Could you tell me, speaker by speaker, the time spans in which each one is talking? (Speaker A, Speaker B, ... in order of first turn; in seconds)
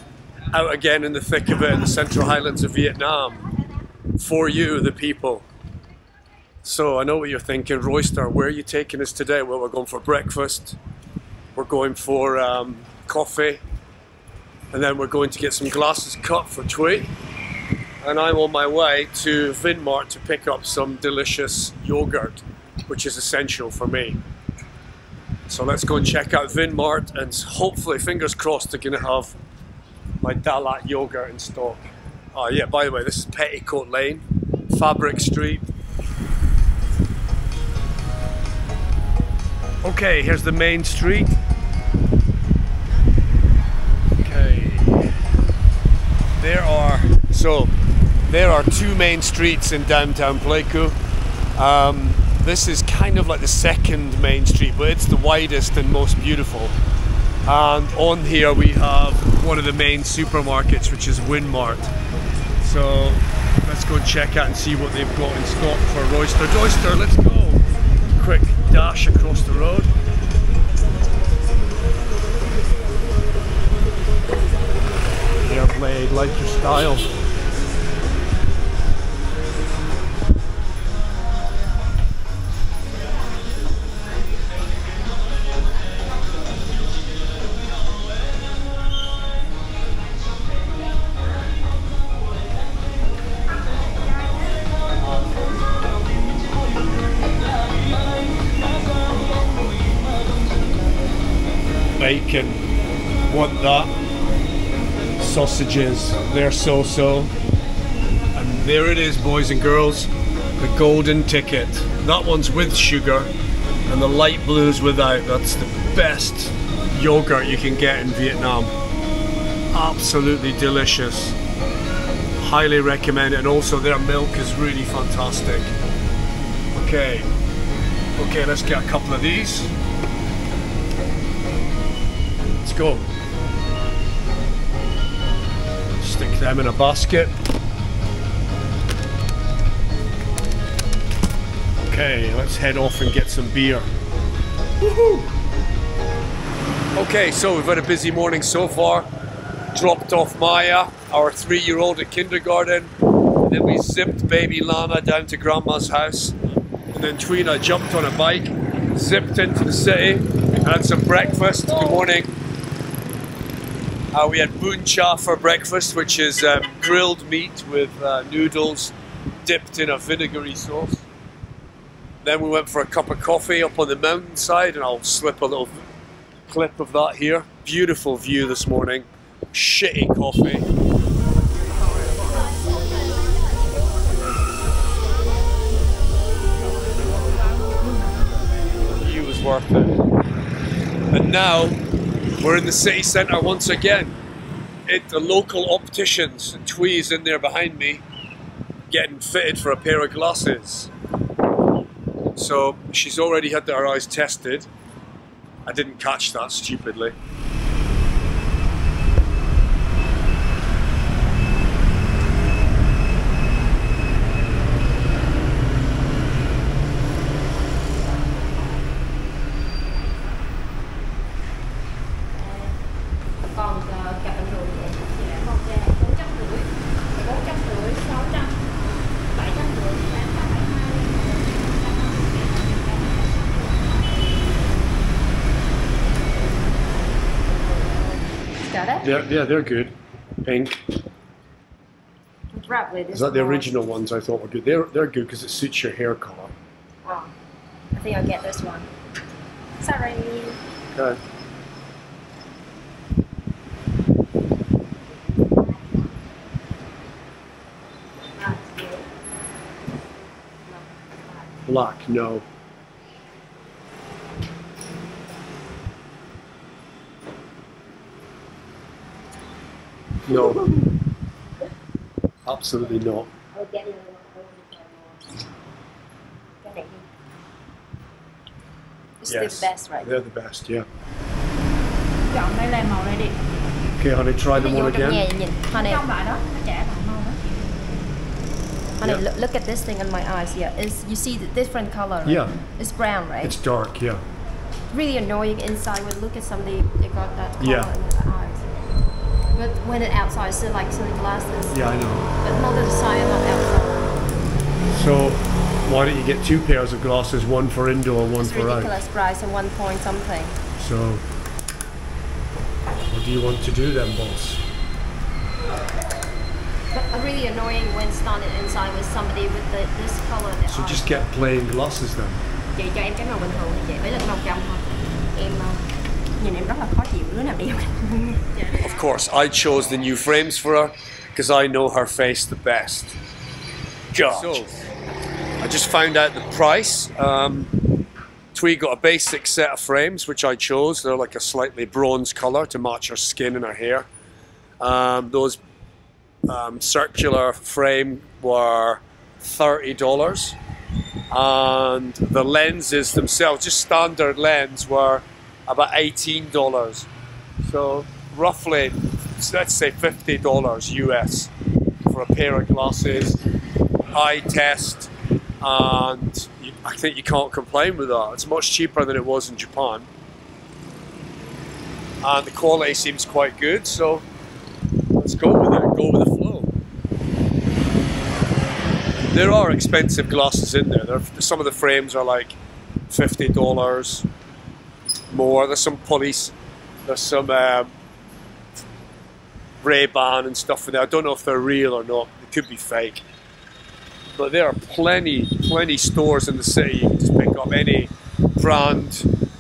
Speaker A: 0.5-3.5, 4.2-5.5, 6.6-10.8, 11.6-13.6, 14.7-17.1, 18.0-24.2, 25.5-29.3, 30.2-35.7, 39.8-41.4, 44.2-45.2, 46.4-47.7, 48.3-51.0, 51.6-56.8, 57.5-61.9, 62.6-67.7, 68.2-69.9, 75.4-77.1, 102.0-102.6, 103.3-104.0, 105.2-107.3, 108.3-113.3, 113.9-118.7, 119.7-121.4, 122.4-125.7, 126.7-127.3, 128.2-129.7, 132.6-133.1, 136.0-137.3, 141.9-143.9, 144.8-145.3, 146.9-149.1, 149.7-156.4, 156.9-162.3, 164.1-168.9, 169.4-171.1, 172.2-175.9, 176.5-180.7, 188.9-190.0, 191.1-191.8, 192.4-194.2, 194.9-198.0, 198.9-200.9, 202.4-204.7, 205.7-207.1, 239.0-240.8, 243.1-246.5, 250.9-251.2, 261.7-262.4, 270.3-270.7, 272.4-273.3, 279.3-280.9, 284.0-285.2, 292.2-292.6, 293.4-294.2, 297.6-297.9, 301.7-302.3, 304.9-308.9, 310.8-311.2, 313.1-314.6, 320.7-322.4, 328.8-333.2, 334.1-334.8, 335.6-337.7, 338.5-344.1, 344.8-345.6, 346.5-350.6, 351.3-357.1, 357.6-361.5, 362.1-363.4, 364.1-370.1, 372.2-374.2, 375.2-376.7, 379.3-382.6, 383.1-384.3, 385.3-386.5, 387.1-387.9, 389.8-393.2, 394.3-399.3
Speaker B: 223.5-225.1, 238.6-239.1, 242.5-243.8, 247.0-247.3, 247.9-248.9, 249.8-250.6, 255.7-256.1, 258.4-259.1, 260.6-261.5, 273.5-275.4, 276.6-277.1, 279.2-280.2, 284.5-286.1, 289.0-293.6, 294.9-298.7, 299.6-304.1, 308.4-310.6, 316.9-321.3, 322.8-325.9, 326.4-328.5
Speaker C: 225.1-228.6, 229.3-234.4, 282.3-283.4, 285.7-287.4